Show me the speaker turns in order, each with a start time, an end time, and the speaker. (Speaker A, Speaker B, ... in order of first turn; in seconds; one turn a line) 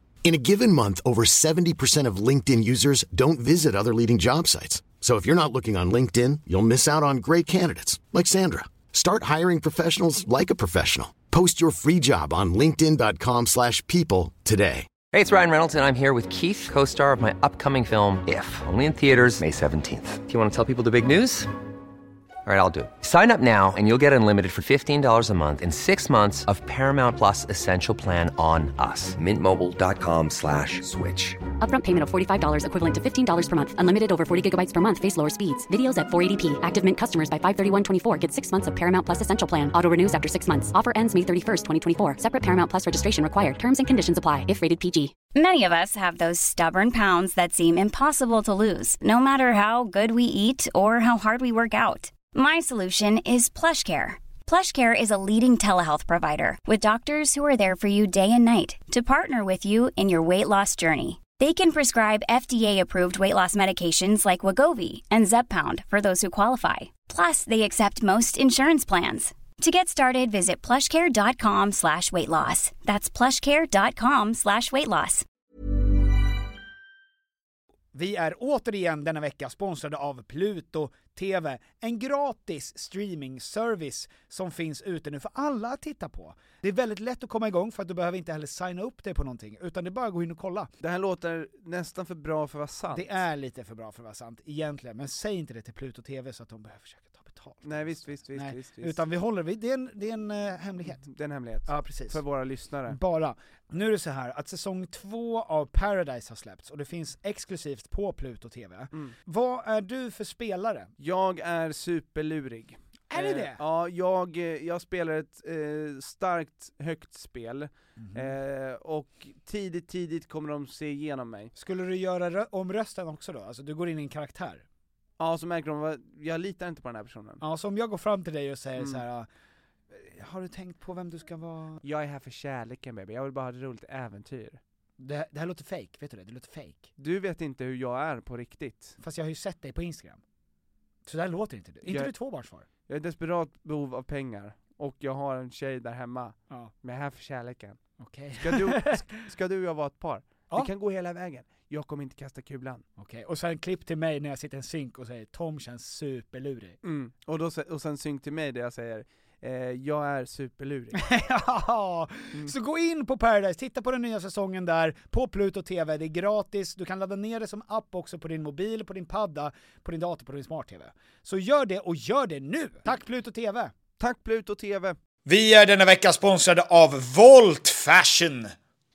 Speaker A: 0.2-14.9
Speaker B: 15.1-21.5
Speaker B: 22.4-31.4
Speaker C: 31.6-45.1
Speaker D: 45.3-75.2
Speaker E: 77.9-90.7
Speaker F: 90.8-93.2
Speaker E: 92.9-101.0
Speaker F: 97.6-99.0
Speaker F: 100.8-103.0
Speaker E: 101.7-102.2
Speaker E: 102.8-110.9
Speaker F: 111.0-121.5
Speaker E: 113.1-113.6
Speaker E: 118.0-118.3
Speaker E: 121.6-124.6
Speaker F: 125.2-127.4
Speaker E: 127.4-129.3
Speaker F: 128.8-129.0
Speaker E: 129.9-131.8
Speaker F: 131.8-134.6
Speaker E: 135.0-136.9
Speaker F: 137.0-139.0
Speaker E: 139.0-140.2
Speaker E: 141.1-142.7
Speaker F: 141.8-142.1
Speaker F: 142.9-147.8
Speaker E: 148.0-149.2
Speaker F: 148.3-152.8
Speaker E: 153.0-156.8
Speaker F: 156.8-161.0
Speaker E: 160.9-173.7
Speaker F: 174.0-175.0
Speaker G: 175.2-178.5